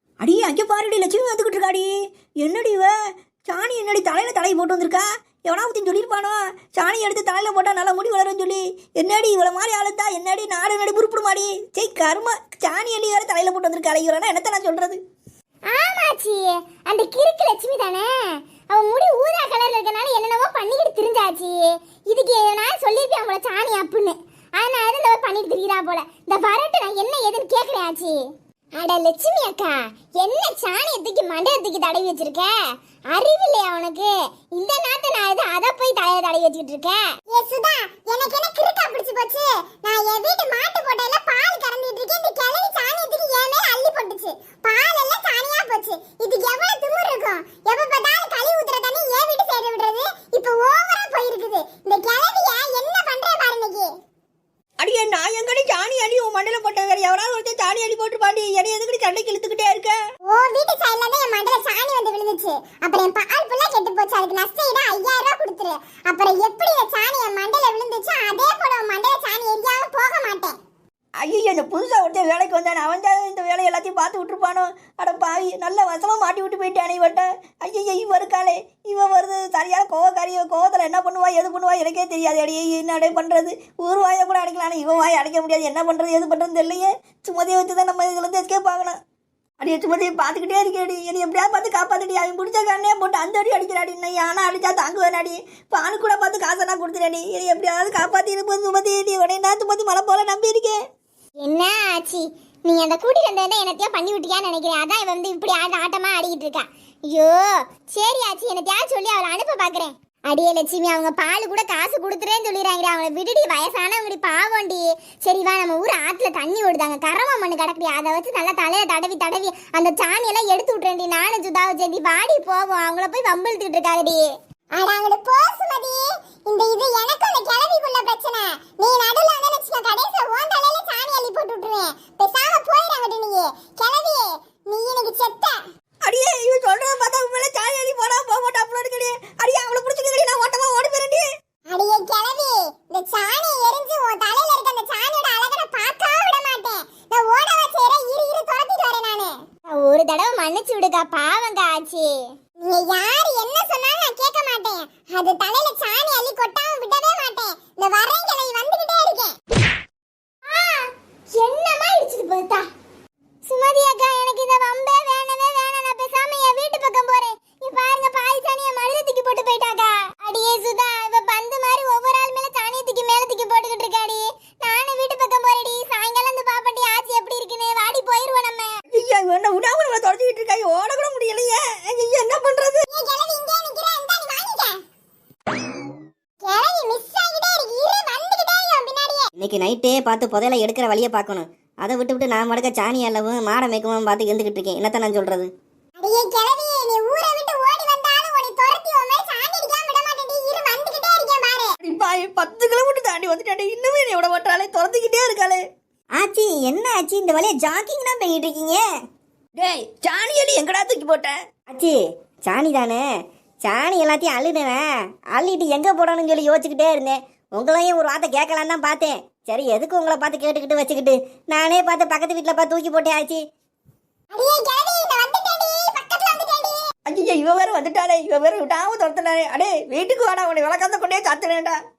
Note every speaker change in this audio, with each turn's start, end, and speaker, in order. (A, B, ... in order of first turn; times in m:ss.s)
0:00.2-0:02.9 A
0:03.4-0:15.0 A
0:15.7-0:18.1 B
0:18.7-0:28.2 B
0:28.8-0:32.5 B
0:33.1-0:53.9 B
0:54.8-1:00.0 A
1:00.2-1:10.6 B
1:11.2-1:29.0 A
1:29.6-1:40.8 A
1:41.4-2:04.2 B
2:04.8-2:15.6 B
2:16.0-2:21.2 A
2:21.7-2:39.3 B
2:40.5-2:42.6 B
2:43.4-2:58.8 B
2:58.9-3:02.8 A
3:02.9-3:04.8 B
3:06.4-3:09.3 B
3:09.4-3:15.5 C
3:16.0-3:21.8 B
3:21.8-3:25.6 A
3:26.2-3:28.8 C
3:29.6-3:31.3 A
3:31.7-3:31.9 C
3:32.5-3:33.0 C
3:33.6-3:34.8 C
3:35.3-3:43.4 C
3:44.3-3:46.9 B
3:47.1-3:51.8 A